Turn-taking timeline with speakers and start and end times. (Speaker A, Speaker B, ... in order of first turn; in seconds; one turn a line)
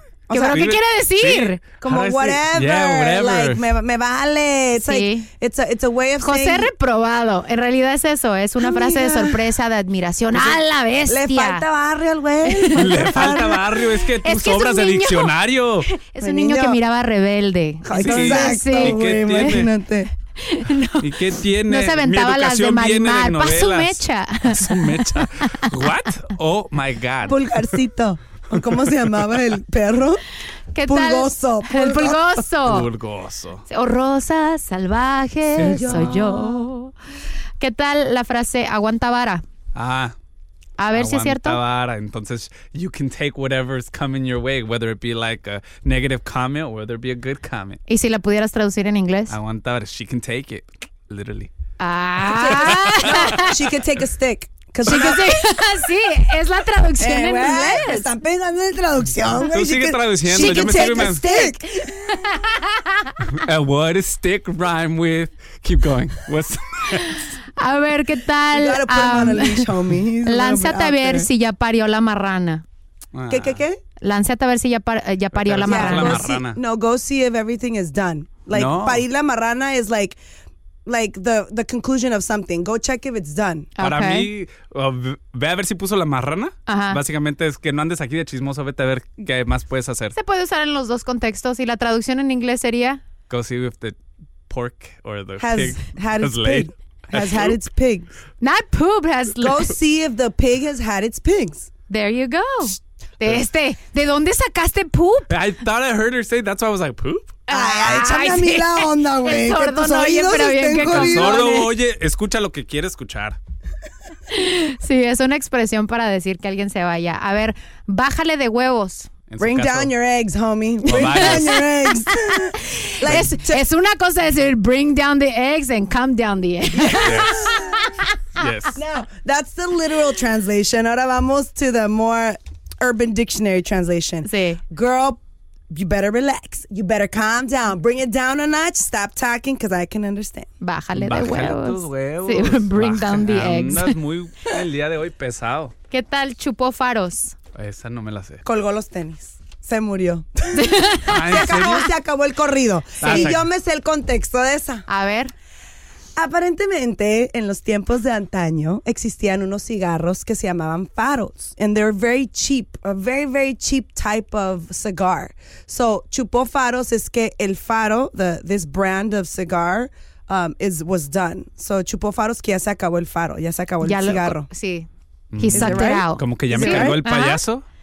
Speaker A: 0.3-0.8
Speaker B: 0.3-1.6
Speaker C: 0.4-3.6
Speaker A: 1.8-6.7
Speaker B: 4.8-5.3
Speaker B: 6.2-11.6
Speaker A: 8.6-9.4
Speaker A: 10.3-13.6
Speaker B: 12.4-13.6
Speaker C: 12.7-15.9
Speaker B: 14.2-15.3
Speaker B: 15.9-19.6
Speaker A: 16.2-16.8
Speaker A: 17.8-20.1
Speaker C: 17.9-19.7
Speaker B: 20.4-21.1
Speaker C: 21.0-27.5
Speaker B: 21.7-25.7
Speaker A: 27.2-30.2
Speaker B: 30.7-32.9
Speaker A: 30.8-32.4
Speaker C: 32.6-33.6
Speaker B: 33.7-36.9
Speaker C: 35.5-36.2
Speaker A: 35.6-36.7
Speaker B: 37.6-39.4
Speaker C: 39.7-40.1
Speaker B: 40.8-41.6
Speaker C: 40.9-47.8
Speaker B: 47.9-49.3
Speaker C: 49.3-51.5
Speaker B: 51.8-53.5
Speaker A: 52.3-55.4
Speaker C: 52.5-53.4
Speaker B: 54.8-58.1
Speaker A: 57.0-61.9
Speaker C: 59.5-61.2
Speaker B: 60.3-61.5
Speaker B: 62.1-63.1
Speaker C: 63.2-67.2
Speaker B: 67.6-69.7
Speaker A: 68.5-71.3
Speaker B: 70.2-72.6
Speaker C: 73.1-73.6
Speaker A: 73.3-73.8
Speaker B: 74.0-76.3
Speaker C: 75.3-76.6
Speaker A: 75.6-80.2
Speaker C: 78.5-79.0
Speaker A: 80.8-83.7
Speaker B: 83.8-84.3
Speaker C: 83.8-90.2
Speaker B: 86.7-87.0
Speaker B: 90.1-93.0
Speaker C: 93.3-93.9
Speaker C: 94.5-97.6
Speaker A: 95.4-98.1
Speaker B: 98.4-99.7
Speaker A: 99.4-101.7
Speaker B: 101.9-105.3
Speaker C: 105.3-107.4
Speaker B: 107.5-111.7
Speaker A: 107.5-111.7
Speaker C: 110.9-113.4
Speaker B: 114.3-119.1
Speaker C: 119.3-119.9
Speaker A: 119.4-123.6
Speaker C: 120.9-121.6
Speaker B: 120.9-121.6
Speaker B: 122.5-128.5
Speaker A: 126.8-127.8
Speaker C: 127.0-127.5
Speaker C: 128.3-128.8
Speaker A: 128.7-140.5
Speaker B: 134.2-134.6
Speaker B: 140.6-143.9
Speaker C: 140.9-145.7
Speaker B: 145.9-147.3
Speaker C: 147.5-148.4
Speaker A: 148.4-154.8
Speaker B: 150.5-151.8
Speaker C: 151.1-151.9
Speaker C: 153.0-153.4
Speaker B: 153.0-153.3
Speaker B: 154.9-155.3
Speaker A: 156.2-174.5
Speaker B: 173.8-174.9
Speaker C: 175.3-177.6
Speaker B: 175.4-177.4
Speaker A: 175.5-177.0